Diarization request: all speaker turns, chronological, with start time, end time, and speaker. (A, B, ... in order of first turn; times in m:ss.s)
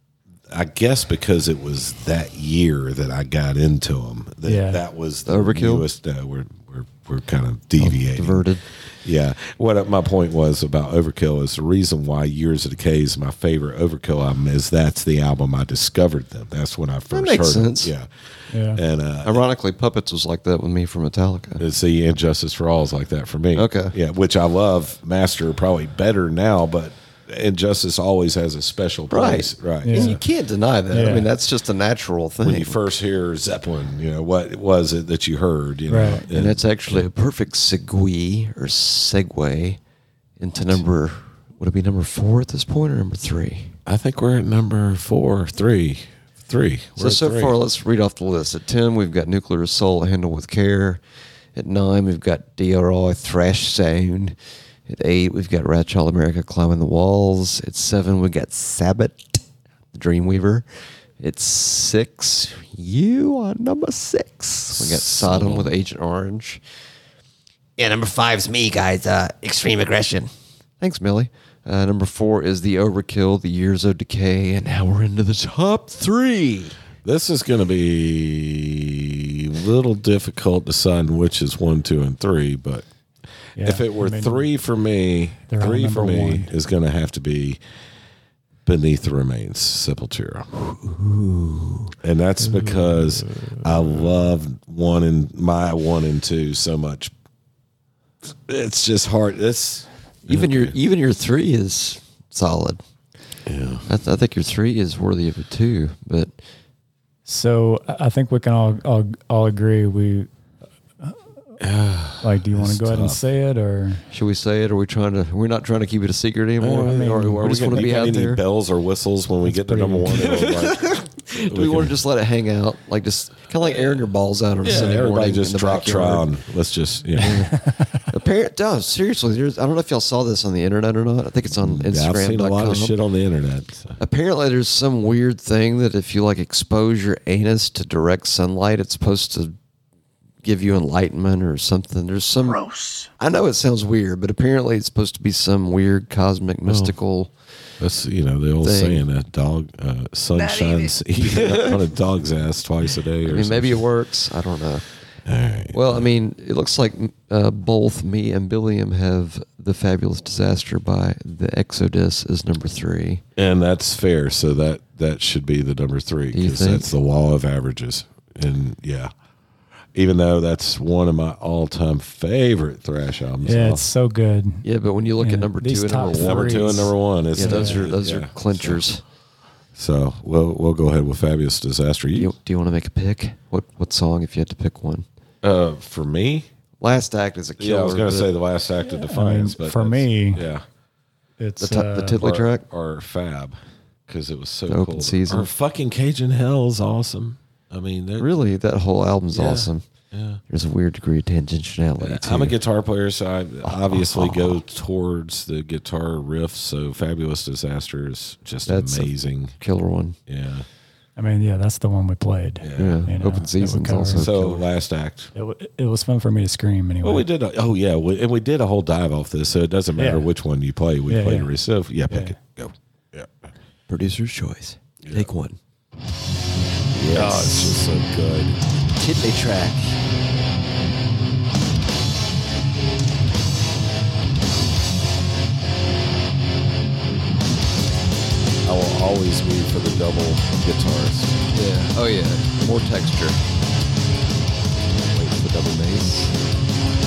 0:00.5-0:18.1 A
0:04.4-0:04.8 B
0:05.3-0:05.9 C
0:07.8-0:08.6 C
0:17.1-0:17.9 C
0:18.5-0:18.8 B
0:18.7-0:19.4 A
0:19.2-0:21.6 C
0:21.6-0:30.2 A
0:23.5-0:23.9 C
0:29.1-0:32.8 C
0:29.8-0:30.2 B
0:30.9-0:31.3 B
0:32.4-0:37.1 A
0:35.9-0:36.2 B
0:36.3-0:39.8 C
0:40.4-0:43.8 C
0:43.8-0:47.6 A
0:47.0-0:51.0 C
0:51.5-0:54.4 C
0:54.9-0:59.4 C
0:59.9-1:00.6 C
1:01.2-1:06.6 C
1:04.7-1:05.8 A
1:07.8-1:10.3 D
1:10.8-1:16.8 C
1:17.0-1:22.8 A
1:23.6-1:24.5 B
1:23.6-1:27.6 A
1:25.5-1:26.5 B
1:28.6-1:30.5 A
1:30.6-1:31.9 C
1:32.0-1:37.1 A
1:32.4-1:34.2 B
1:38.2-1:40.8 A
1:40.3-1:42.8 C
1:43.4-1:43.9 A
1:43.9-1:46.3 C
1:47.2-1:50.3 B
1:51.6-1:53.2 A
1:52.2-1:54.0 B
1:54.1-1:58.4 C
1:56.6-2:02.0 A
1:56.8-1:57.4 B
1:59.4-2:00.3 B
2:00.3-2:06.3 C
2:04.6-2:07.5 A
2:07.2-2:13.0 C
2:07.2-2:08.0 B
2:11.6-2:14.0 A
2:14.0-2:19.5 C
2:20.4-2:27.3 C
2:26.6-2:27.0 A
2:27.8-2:33.8 A
2:28.6-2:29.0 C
2:31.2-2:31.8 C
2:33.2-2:34.8 C
2:35.2-2:36.1 A
2:35.7-2:43.2 C
2:43.4-2:49.1 A
2:46.3-2:46.9 C
2:49.9-2:53.9 A
2:53.4-2:54.6 B
2:54.6-2:59.0 C
2:55.2-2:57.9 B
2:56.1-2:58.8 A
2:59.7-3:02.3 A
3:02.1-3:05.0 C
3:05.4-3:06.5 A
3:06.8-3:08.3 C
3:07.6-3:10.6 A
3:08.8-3:10.4 B
3:11.4-3:12.2 B
3:11.6-3:12.6 C
3:12.2-3:18.3 A
3:14.7-3:15.5 C
3:18.2-3:19.8 C
3:19.3-3:20.4 A
3:20.5-3:22.6 C
3:22.0-3:29.6 A
3:23.6-3:24.6 C
3:28.6-3:30.2 C
3:30.3-3:30.6 A
3:31.2-3:34.2 B
3:32.6-3:33.0 A
3:32.8-3:34.6 C
3:34.2-3:35.3 A
3:35.3-3:37.2 B
3:37.0-3:43.5 A
3:40.0-3:40.3 B
3:41.1-3:41.5 B
3:42.1-3:42.4 B
3:43.9-3:45.6 C
3:45.0-3:45.3 A
3:46.9-3:47.5 C
3:47.1-3:48.6 A
3:49.0-3:49.9 C
3:58.6-4:01.4 A
4:01.5-4:03.4 C
4:05.1-4:06.3 C